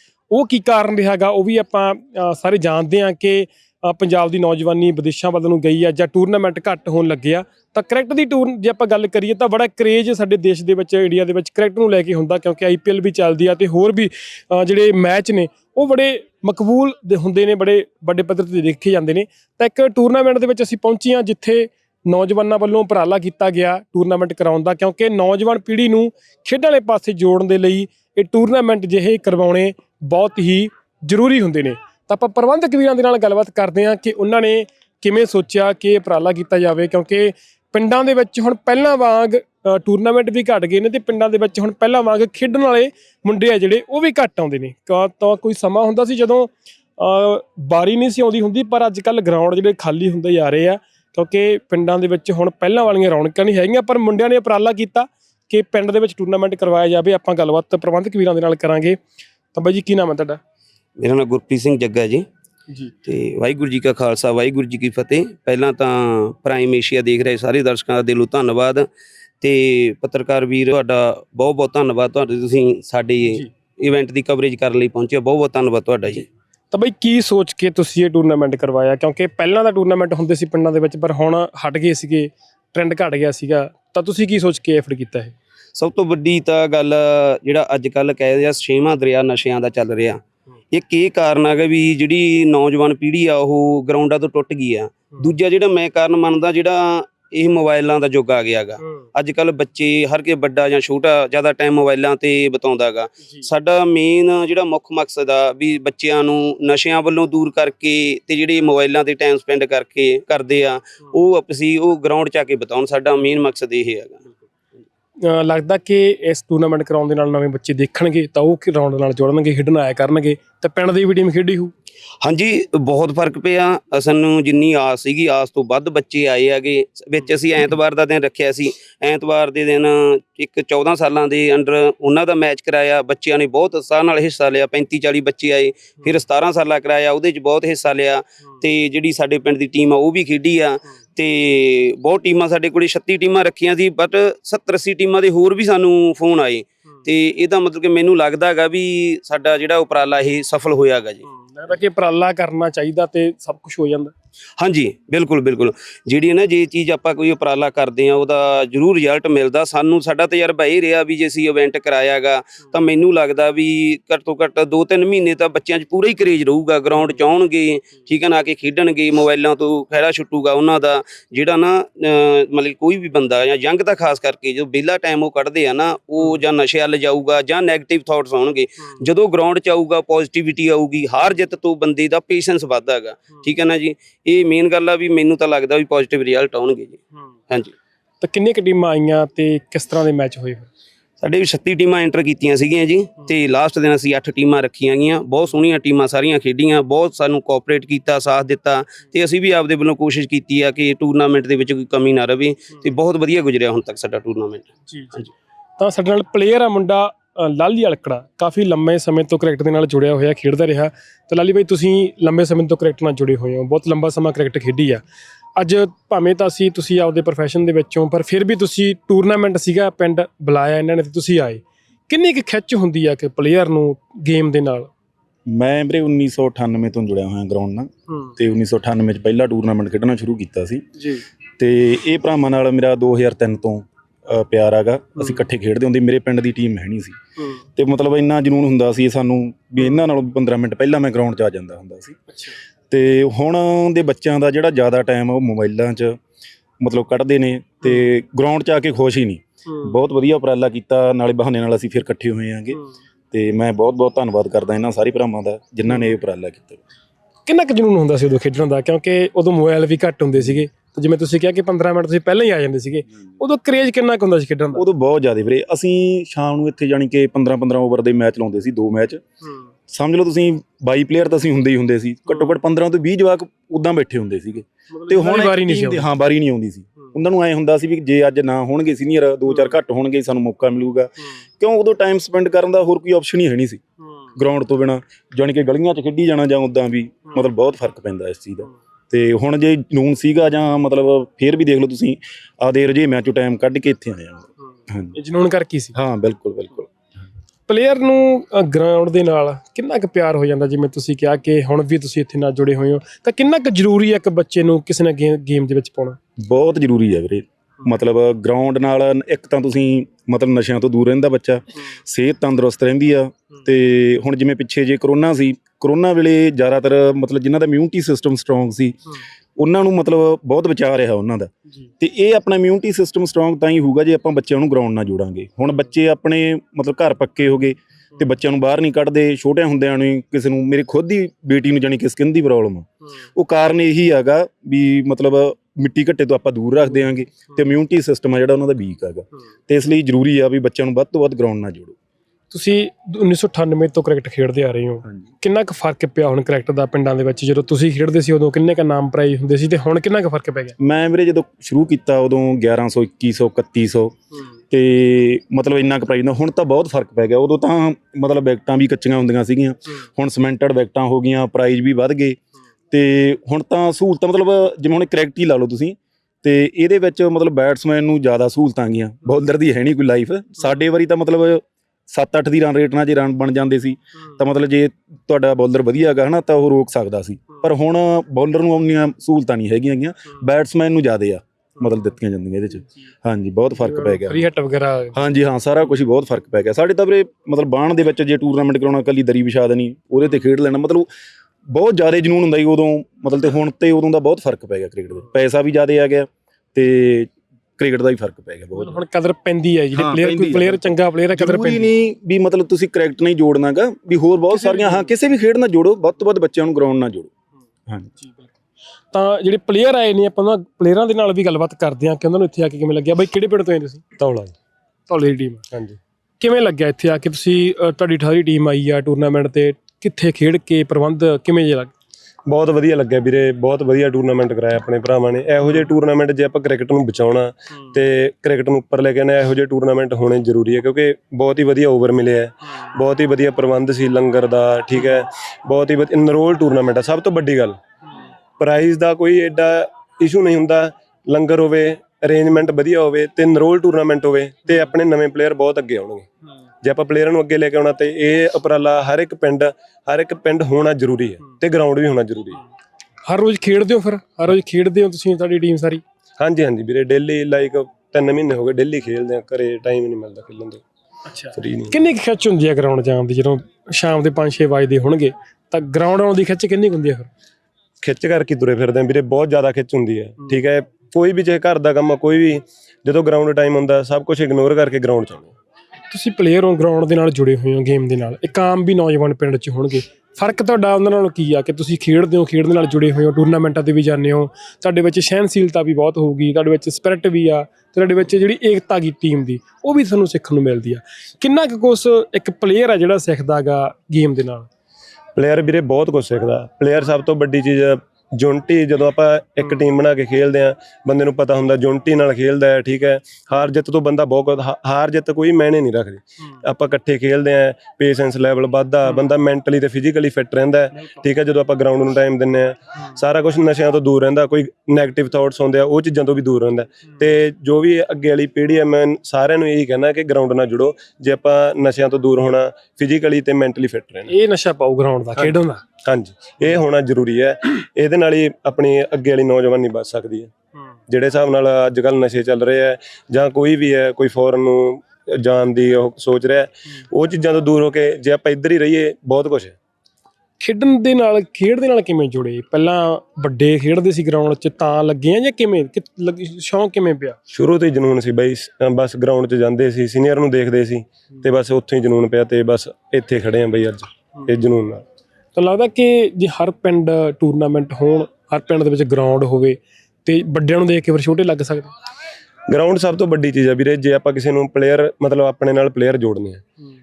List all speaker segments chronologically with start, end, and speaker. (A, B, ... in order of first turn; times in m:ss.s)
0:00.3-0:59.0 A
0:59.5-1:00.4 A
1:01.0-1:02.2 B
1:03.0-1:08.9 B
1:09.4-1:16.3 B
1:16.7-1:25.3 A
1:25.7-1:30.2 B
1:30.7-1:54.3 B
1:55.2-2:01.7 A
2:02.2-2:31.2 B
2:31.3-2:34.1 A
2:34.6-3:07.7 B
3:08.2-3:10.7 A
3:11.2-3:25.2 B
3:24.9-3:25.3 A
3:25.8-3:35.0 A
3:35.6-3:44.9 A
3:45.5-3:50.8 C
3:48.1-3:48.3 A
3:51.0-3:51.2 A
3:51.6-3:57.2 C
3:55.2-3:55.5 A
3:57.4-3:57.6 A
3:57.8-4:02.2 C
3:59.8-4:00.0 A
4:02.3-4:02.6 A
4:02.9-4:06.2 C
4:06.8-4:12.8 C
4:07.8-4:08.1 A
4:09.7-4:10.0 A
4:13.3-4:16.8 C
4:17.5-4:24.8 A
4:24.7-4:29.2 C
4:29.9-4:43.8 C
4:34.9-4:36.1 A
4:39.5-4:39.8 A
4:44.0-4:44.3 A
4:44.3-4:55.1 C
4:55.1-4:55.9 A
4:55.9-4:56.9 C
4:57.7-5:06.2 A
5:06.4-5:19.0 C
5:19.6-5:41.9 C
5:42.5-5:50.8 A
5:50.8-5:54.1 C
5:54.7-6:02.4 C
6:02.9-6:24.4 C
6:23.7-6:25.2 A
6:25.1-6:31.1 C
6:31.7-6:39.0 C
6:38.8-6:41.9 A
6:39.9-6:47.3 C
6:44.5-6:45.1 A
6:48.2-6:48.5 A
6:49.1-6:54.0 A
6:54.2-6:54.5 D
6:55.1-6:55.6 A
6:55.7-6:56.0 D
6:56.4-7:01.9 A
7:02.5-7:17.8 D
7:18.6-7:26.3 D
7:26.8-7:32.6 D
7:33.3-7:36.0 A
7:36.4-7:40.8 D
7:41.3-7:47.3 A
7:41.5-7:42.0 D
7:48.0-7:55.5 D
7:56.1-8:14.7 A
8:15.3-8:44.3 D
8:44.3-8:45.8 A
8:46.0-8:50.5 D
8:51.1-8:59.7 D
9:00.6-9:07.4 A
9:07.5-9:15.0 D
9:15.5-9:21.9 A
9:22.7-9:26.6 D